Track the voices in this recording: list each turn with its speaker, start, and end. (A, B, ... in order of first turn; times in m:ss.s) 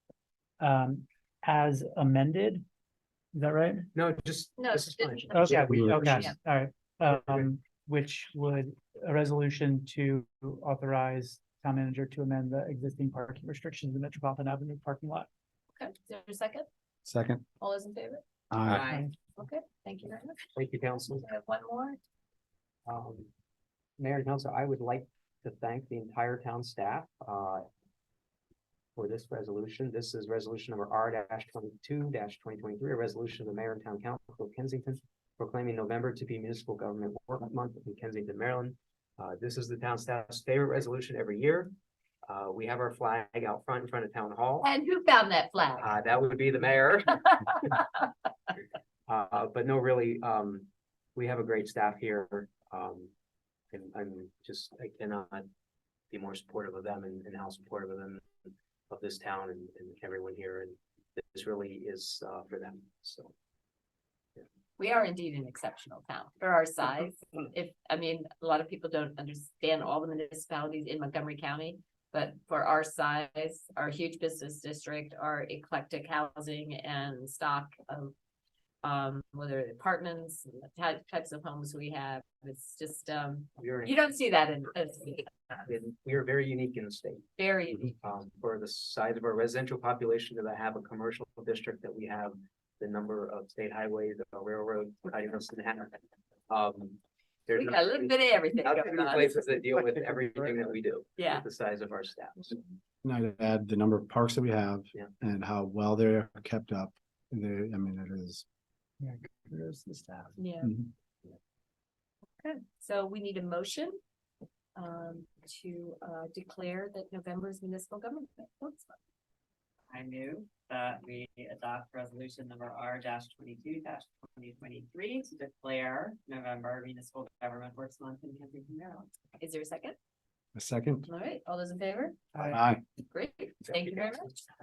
0:00.6-0:02.6 A
0:03.4-0:03.9 A
0:03.9-0:06.3 B
0:04.6-0:06.4 C
0:05.3-0:15.3 A
0:05.7-0:06.1 D
0:07.1-0:07.5 B
0:15.8-0:16.7 C
0:17.1-0:17.4 D
0:17.6-0:20.4 C
0:18.5-0:19.0 D
0:20.6-0:21.2 B
0:21.2-0:22.0 C
0:22.9-0:23.3 B
0:24.0-0:27.7 B
0:29.0-0:41.7 B
0:42.3-0:44.7 B
0:44.6-0:45.9 C
0:45.8-0:47.5 B
0:49.1-0:53.1 B
0:53.7-0:55.5 B
0:56.1-0:58.3 B
0:58.9-1:03.3 B
1:04.8-1:18.1 C
1:18.8-1:25.3 C
1:23.6-1:24.0 B
1:25.7-1:27.3 B
1:27.4-1:28.0 C
1:27.8-1:42.6 B
1:37.6-1:39.4 C
1:39.7-1:40.6 A
1:41.2-1:41.5 C
1:43.0-1:48.4 D
1:49.0-1:50.3 A
1:50.4-1:50.7 C
1:50.6-1:50.9 D
1:52.4-1:54.0 C
1:54.8-1:59.0 C
1:59.9-2:09.1 E
2:09.4-2:10.0 C
2:10.6-2:11.1 D
2:11.1-2:12.2 C
2:12.4-2:12.8 D
2:13.1-2:14.4 C